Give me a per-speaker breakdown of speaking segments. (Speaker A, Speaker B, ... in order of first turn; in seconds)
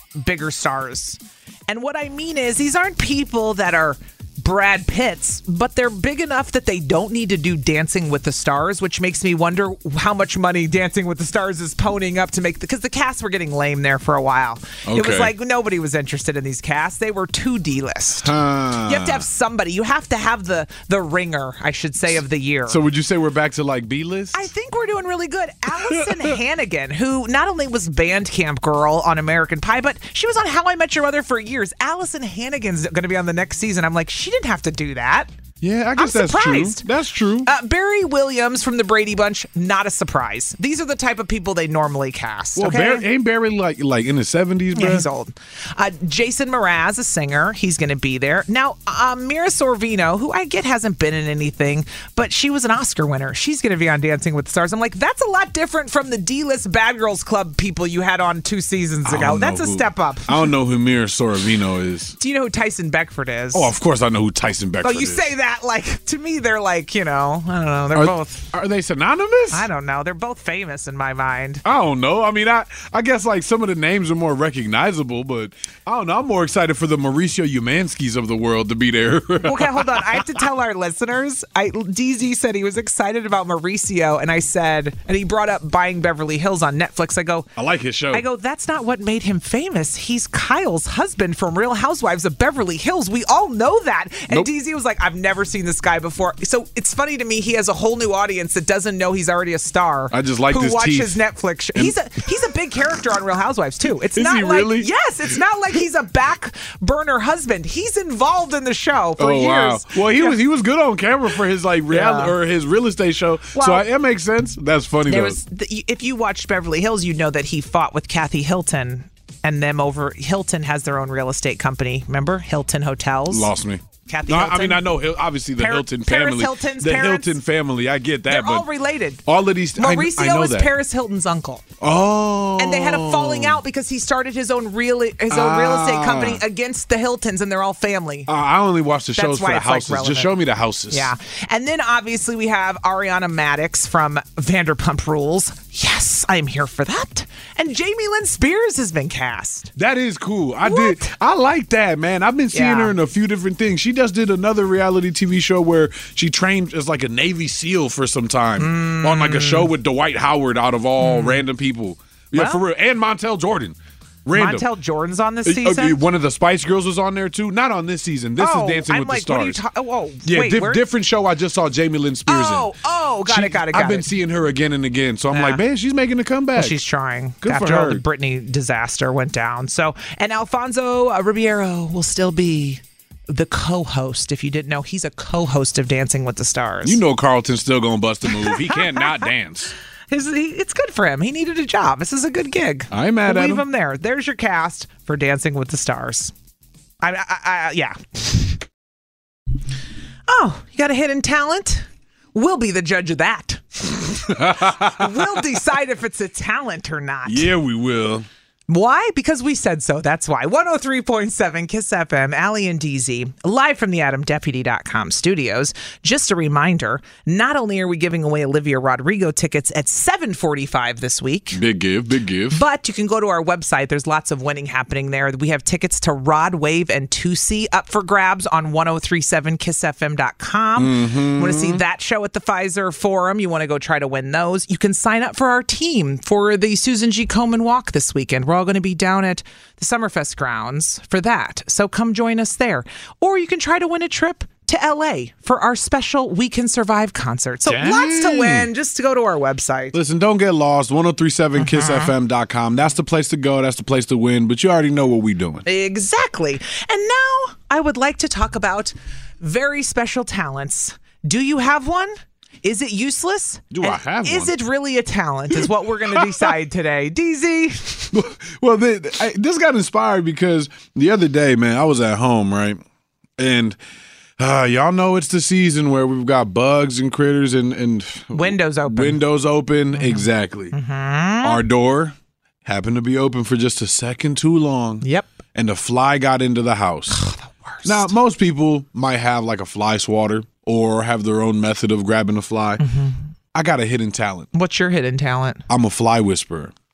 Speaker A: 0.2-18.3, 18.9-22.8, 24.3-35.3, 36.0-36.9, 37.5-43.1, 44.8-60.4, 62.2-63.7, 64.8-68.5, 69.5-71.6, 79.4-87.5, 88.1-110.4, 111.9-112.3, 113.5-113.9, 115.1-123.5, 124.1-124.9, 125.6-127.4, 128.3-129.2, 129.8-131.7, 132.6-138.3, 139.2-140.4, 140.9-149.7, 150.6-151.1, 152.5-152.9, 158.6-159.7, 161.0-161.4, 162.3-162.6, 164.3-166.0, 168.4-170.8, 172.3-174.1, 175.3-175.6, 176.6-187.0, 188.4-189.2, 190.1-196.3, 197.0-198.6, 200.3-207.5, 208.7-221.6, 222.5-249.9, 251.6-252.1, 255.7-268.1, 278.3-279.2, 279.9-281.6, 285.0-285.3, 287.1-288.1, 292.8-293.3, 294.5-295.6
Speaker B: 14.9-15.3, 18.2-19.2, 22.7-24.5, 25.8-26.4, 35.6-37.5, 42.6-45.1, 59.0-62.2, 63.5-65.3, 67.9-69.7, 71.6-80.3, 87.6-88.2, 100.1-101.2, 104.1-104.9, 109.2-115.4, 123.3-128.7, 129.3-130.7, 131.8-133.6, 135.3-136.4, 138.3-141.1, 149.8-164.7, 165.4-169.6, 170.2-172.7, 173.3-176.8, 177.4-178.0, 186.8-189.7, 192.9-193.7, 204.3-205.4, 207.3-208.3, 221.5-222.6, 230.8-231.8, 247.7-248.7, 249.9-255.7, 263.7-264.5, 265.5-266.5, 268.1-272.8, 273.4-273.8, 274.4-280.7, 281.4-287.2, 287.9-292.8, 293.5-294.5, 295.7-296.7